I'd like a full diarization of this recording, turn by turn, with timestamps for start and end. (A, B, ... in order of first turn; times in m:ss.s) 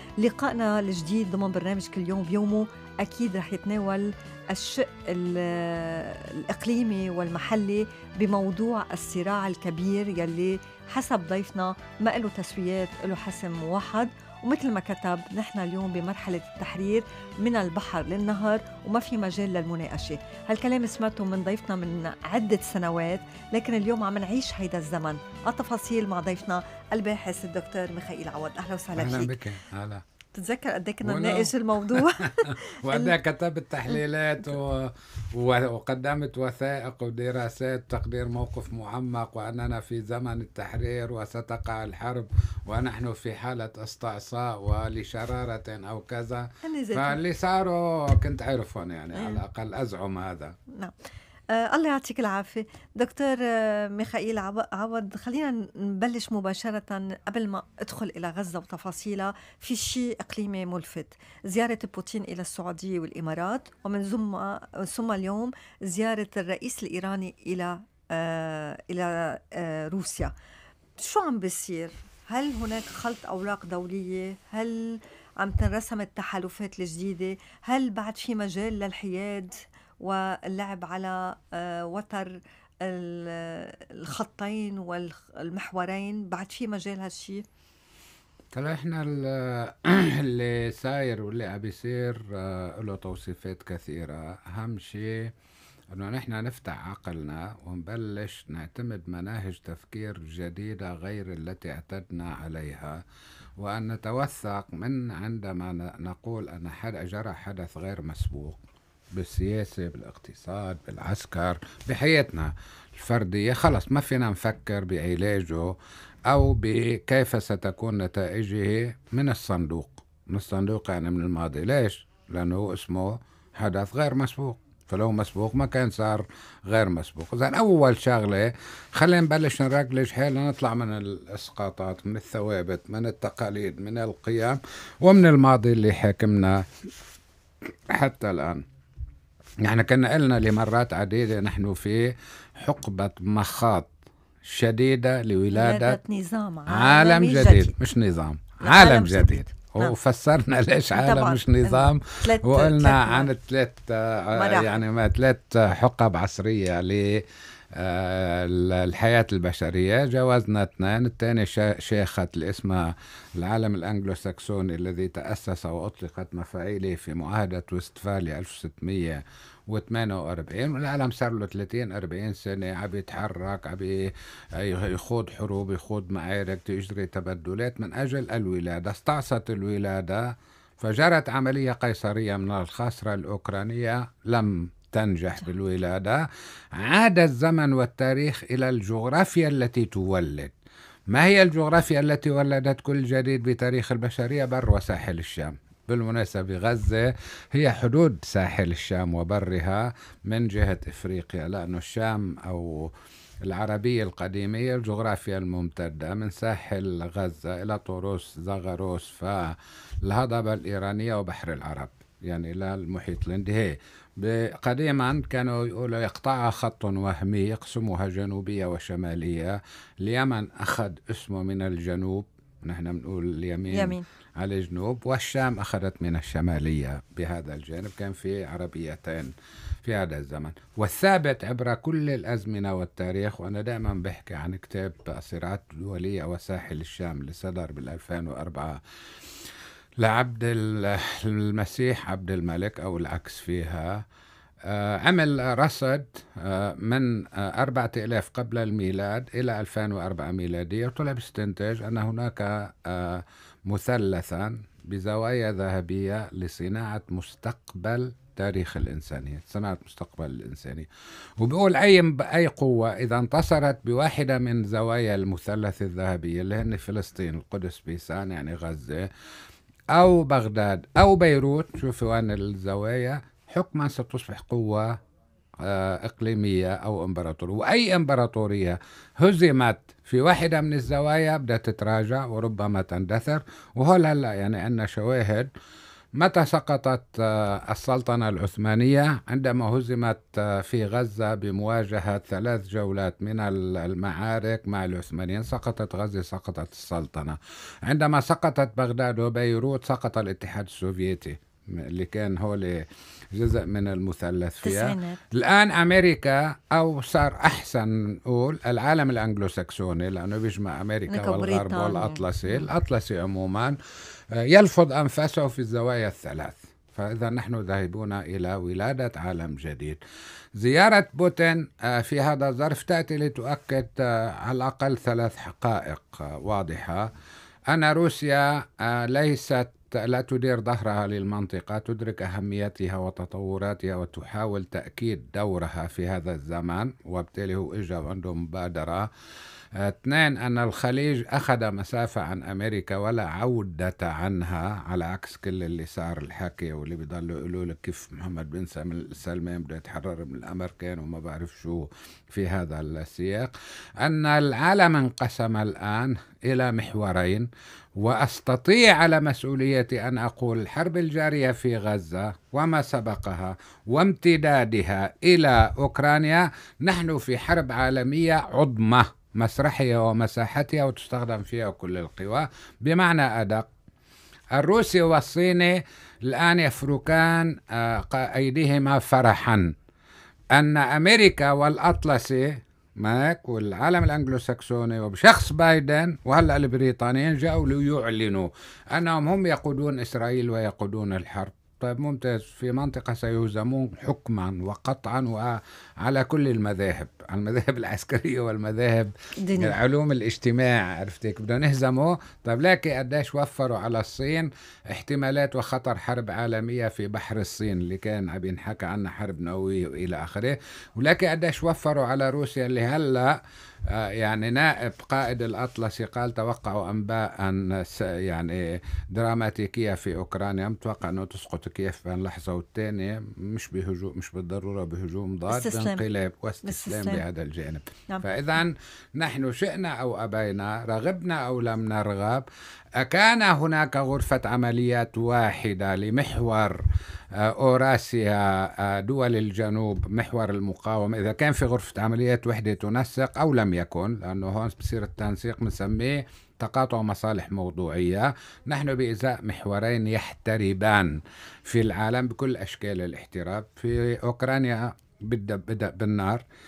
0:00.2-0:29.4 A
0:29.0-0:30.0 B
0:30.3-0:33.1 A
0:31.0-0:50.6 B
0:46.6-0:47.2 A
0:49.2-0:49.4 A
0:51.5-1:10.3 A
1:11.0-1:27.4 A
1:28.5-1:35.3 B
1:35.9-1:43.0 B
1:43.6-1:48.6 B
1:49.1-1:55.8 B
1:56.3-2:16.6 B
2:17.9-2:18.6 B
2:19.6-2:26.0 B
2:25.5-2:27.8 A
2:26.7-3:10.5 B
2:28.6-2:29.9 A
2:30.9-2:33.3 A
2:34.3-2:34.8 A
3:11.1-3:22.9 B
3:23.4-3:58.8 B
3:43.7-3:44.0 A
4:00.0-4:04.0 B
4:04.6-4:29.1 B
4:29.9-4:35.0 B
4:35.6-4:45.5 B
4:46.2-5:13.8 B
5:04.6-5:05.2 A
5:11.1-5:12.6 A
5:14.3-5:20.0 B
5:20.6-5:27.1 B
5:27.7-5:39.1 B
5:39.7-6:13.7 B
6:14.5-6:19.7 B
6:20.5-6:53.4 B
6:39.4-6:39.8 A
6:53.9-7:12.4 B
7:05.5-7:06.0 A
7:06.6-7:07.2 A
7:13.0-7:16.8 B
7:17.3-7:36.4 B